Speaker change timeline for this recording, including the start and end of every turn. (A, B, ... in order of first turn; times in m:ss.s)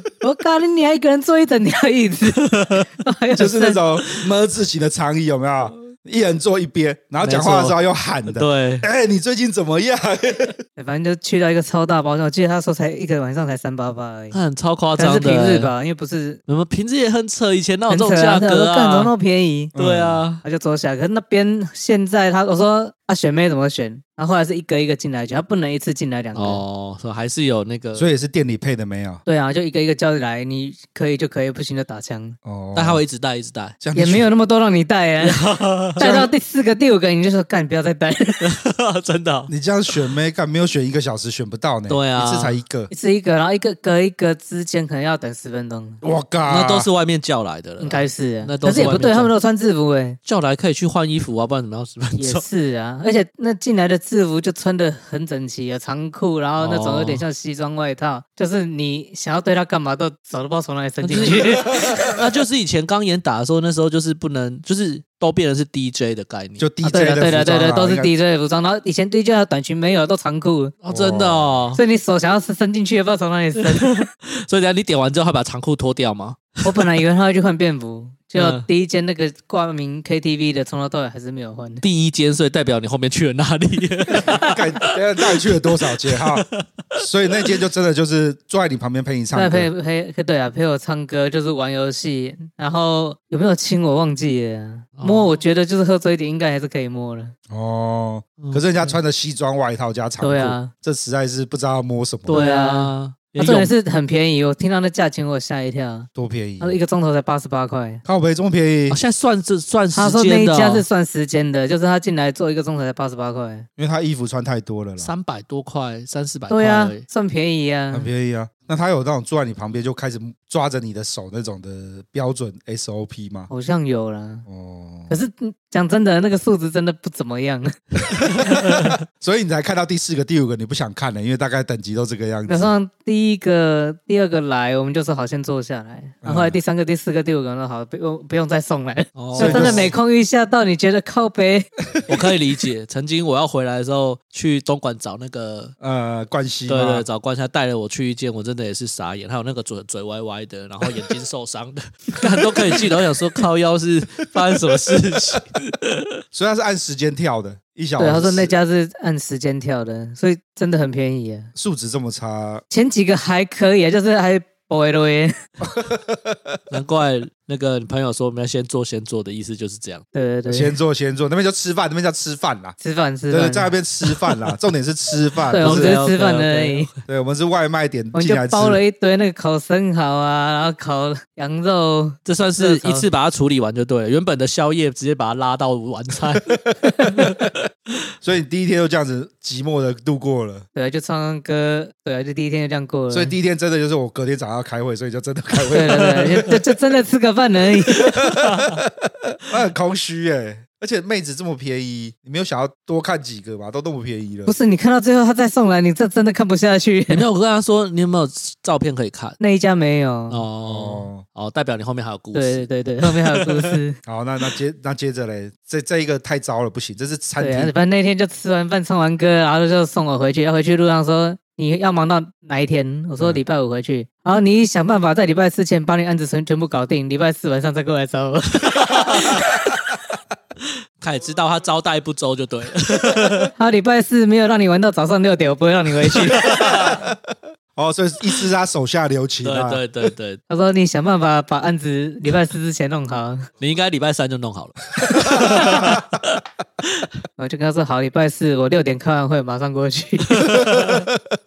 0:00.2-0:03.8 A
0:02.5-0:02.8 B
0:03.4-0:10.6 C
0:07.2-0:08.9 B
0:10.8-0:14.4 A
0:14.3-0:15.7 B
0:15.0-0:16.4 A
0:16.5-0:19.1 B
0:17.9-0:19.7 A
0:19.8-0:20.2 C
0:19.8-0:20.4 B
0:20.4-0:26.6 A
0:26.4-0:28.1 B
0:28.0-0:29.2 C
0:29.3-0:32.4 A
0:32.4-0:33.0 C
0:32.8-0:33.8 B
0:33.8-0:34.3 C
0:34.0-0:38.5 A
0:35.2-0:36.3 B
0:38.4-0:40.0 B
0:39.5-0:42.9 C
0:41.9-0:42.6 B
0:42.9-0:46.0 A
0:46.0-0:46.9 C
0:46.5-0:49.3 B
0:47.8-0:50.2 A
0:50.3-0:52.4 B
0:52.2-1:02.1 A
0:56.6-0:57.2 B
1:01.0-1:06.7 B
1:01.3-1:02.1 C
1:06.6-1:08.1 C
1:06.8-1:10.8 A
1:10.8-1:11.8 B
1:10.9-1:11.6 C
1:11.8-1:14.1 A
1:13.7-1:16.8 B
1:16.6-1:21.8 A
1:18.4-1:18.7 B
1:21.8-1:27.0 B
1:24.2-1:29.7 C
1:29.3-1:37.3 A
1:35.0-1:35.3 B
1:37.5-1:42.4 C
1:38.4-1:38.7 B
1:40.2-1:40.7 A
1:42.3-1:43.7 B
1:42.3-1:46.1 A
1:46.2-1:46.8 C
1:46.6-1:48.0 A
1:48.1-1:49.0 C
1:48.9-1:50.9 B
1:49.9-1:53.7 A
1:53.8-1:55.1 C
1:55.0-1:57.0 B
1:56.5-1:58.1 A
1:57.9-2:03.5 C
2:03.5-2:04.5 A
2:04.5-2:05.1 C
2:05.1-2:08.5 A
2:08.2-2:12.7 C
2:12.5-2:21.7 A
2:16.2-2:16.6 C
2:19.2-2:20.0 B
2:19.4-2:19.9 C
2:22.1-2:25.7 B
2:25.8-2:27.0 C
2:26.7-2:36.1 B
2:36.3-2:38.5 C
2:38.0-2:41.5 A
2:41.6-2:42.6 C
2:42.7-2:45.4 A
2:45.6-2:46.6 C
2:46.7-2:50.0 B
2:50.1-2:50.8 A
2:50.5-2:52.8 C
2:52.8-2:53.8 A
2:53.3-2:56.0 C
2:55.5-2:56.9 A
2:55.6-2:56.9 B
2:57.1-2:58.8 C
2:58.1-3:03.1 A
3:02.3-3:06.5 B
3:06.5-3:07.5 C
3:07.1-3:07.6 B
3:08.2-3:10.7 C
3:10.8-3:13.3 A
3:13.1-3:16.5 C
3:15.7-3:18.1 A
3:18.1-3:24.6 C
3:18.2-3:18.8 B
3:24.5-3:27.2 A
3:27.1-3:29.4 B
3:29.4-3:30.4 A
3:30.3-3:33.7 B
3:30.6-3:31.2 C
3:32.3-3:34.0 A
3:34.1-3:37.7 C
3:37.4-3:49.8 A
3:49.1-3:49.4 B
3:51.0-3:53.5 B
3:53.6-3:56.9 A
3:56.4-3:57.0 B
3:56.4-3:59.8 C
3:59.4-4:00.4 B
4:00.5-4:03.5 A
4:03.6-4:06.4 B
4:05.1-4:06.2 C
4:05.2-4:05.8 A
4:07.4-4:10.8 A
4:10.4-4:11.0 B
4:10.5-4:11.4 C